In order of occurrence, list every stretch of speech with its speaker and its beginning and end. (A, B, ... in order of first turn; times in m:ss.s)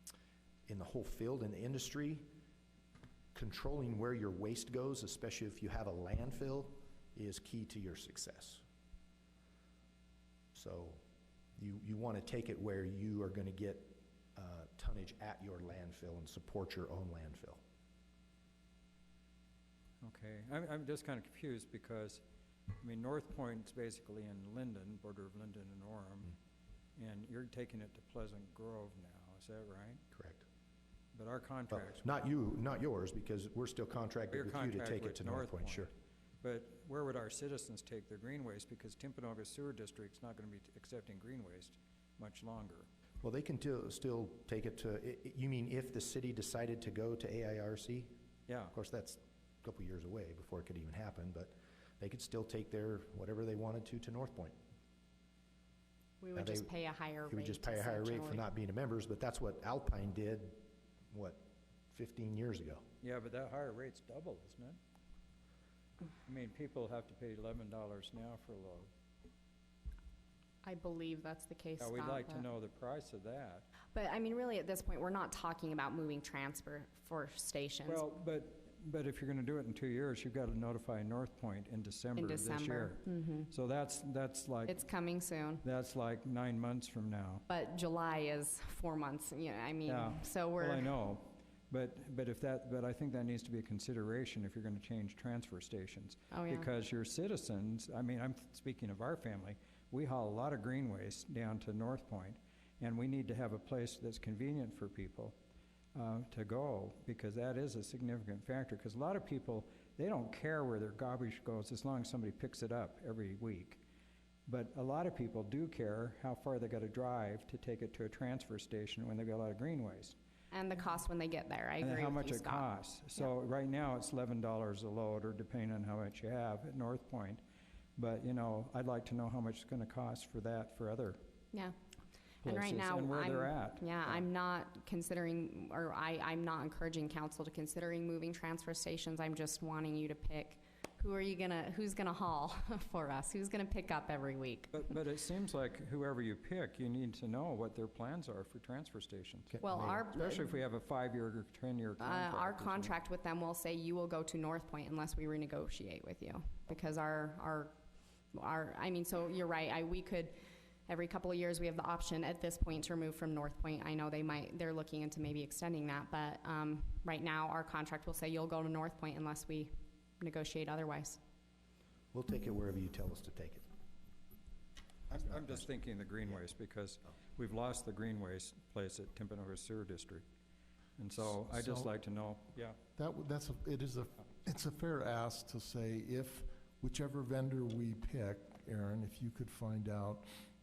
0:00.7-0:02.3 A
0:03.3-0:08.6 A
0:10.5-0:11.0 A
0:11.6-0:17.6 A
0:20.0-0:22.2 B
0:22.8-0:26.3 B
0:27.0-0:30.0 B
0:30.1-0:30.4 A
0:31.1-0:32.2 B
0:31.7-0:35.9 A
0:34.3-0:35.9 B
0:36.4-0:42.9 B
0:43.2-0:48.1 A
0:48.5-0:48.7 B
0:48.7-0:54.6 A
0:56.2-0:58.4 C
0:56.3-0:56.7 A
0:57.3-1:02.8 A
1:03.0-1:04.8 B
1:06.2-1:08.9 B
1:10.6-1:12.4 C
1:11.8-1:13.7 B
1:13.9-1:18.0 C
1:17.8-1:24.8 B
1:22.2-1:23.5 C
1:24.7-1:25.6 C
1:25.6-1:27.4 B
1:27.5-1:30.9 C
1:29.8-1:45.3 B
1:36.3-1:36.7 C
1:45.9-1:53.8 B
1:54.5-2:00.2 B
2:00.5-2:02.7 C
2:01.8-2:07.4 B
2:08.0-2:11.2 B
2:12.4-2:14.2 B
2:12.4-2:24.9 C
2:24.7-2:32.9 B
2:29.5-2:30.0 A
2:29.6-2:30.5 C
2:32.0-2:37.7 C
2:38.3-2:40.3 C
2:40.9-2:51.2 C
2:52.1-2:53.7 A
2:55.1-2:55.7 A
2:55.1-3:00.2 B
3:01.0-3:02.8 B
3:01.2-3:01.9 D
3:03.0-3:10.3 D